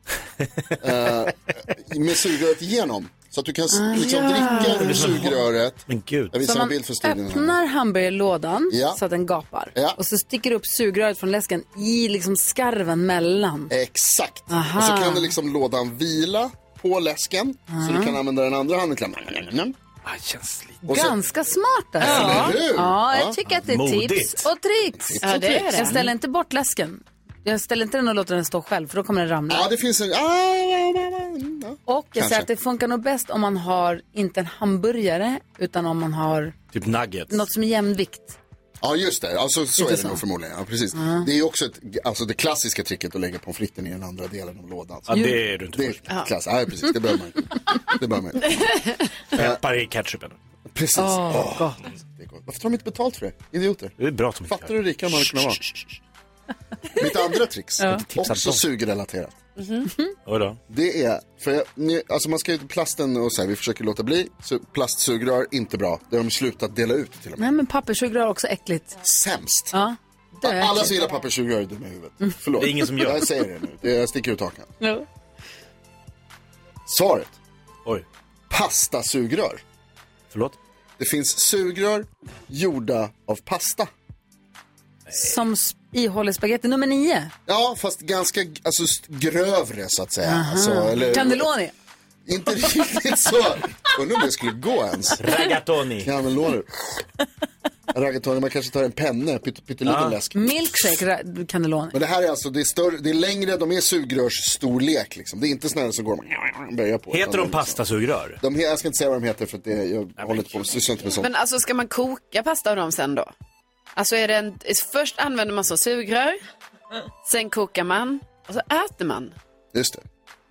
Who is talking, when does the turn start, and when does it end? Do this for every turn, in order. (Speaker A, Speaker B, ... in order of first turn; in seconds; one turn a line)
Speaker A: 0.8-7.6
Speaker B: 3.7-4.9
Speaker C: 3.9-5.1
Speaker D: 4.7-6.3
Speaker B: 6.4-13.7
Speaker A: 8.7-9.0
Speaker A: 13.7-19.7
Speaker B: 14.5-15.3
Speaker B: 17.7-18.2
Speaker D: 20.1-20.8
Speaker A: 20.8-21.1
Speaker B: 20.9-29.7
Speaker D: 22.0-22.5
Speaker A: 22.0-23.4
Speaker D: 23.5-24.5
Speaker A: 25.1-25.8
Speaker C: 25.2-26.1
Speaker A: 29.5-32.5
Speaker B: 31.9-36.5
Speaker D: 36.7-37.4
Speaker B: 37.3-38.4
Speaker A: 38.8-45.2
Speaker B: 39.8-40.2
Speaker B: 40.9-41.2
Speaker D: 45.1-46.1
Speaker B: 45.1-45.4
Speaker A: 45.7-48.7
Speaker C: 48.5-48.9
Speaker D: 49.3-50.4
Speaker A: 50.7-55.6
Speaker C: 51.2-51.7
Speaker D: 54.0-55.8
Speaker A: 56.9-59.4
Speaker D: 57.9-58.6
Speaker C: 59.6-59.9
Speaker D: 60.2-60.6
Speaker A: 60.7-67.5
Speaker B: 67.4-69.0
Speaker A: 69.0-69.7
Speaker B: 69.7-71.0
Speaker A: 70.4-74.7
Speaker D: 72.5-73.3
Speaker A: 76.8-77.3
Speaker A: 78.5-79.6
Speaker D: 80.3-80.6
Speaker A: 81.0-83.9
Speaker B: 85.1-87.3
Speaker A: 87.5-91.5
Speaker B: 90.2-91.7
Speaker A: 92.2-95.3
Speaker D: 95.2-96.1
Speaker A: 96.0-97.0
Speaker A: 97.9-100.7
Speaker D: 99.9-100.2
Speaker B: 100.3-102.0
Speaker A: 101.9-107.8
Speaker D: 107.1-108.4
Speaker A: 108.4-111.3
Speaker D: 110.2-110.5
Speaker C: 111.2-113.3
Speaker C: 113.9-116.4
Speaker C: 117.2-119.3
Speaker A: 119.7-120.0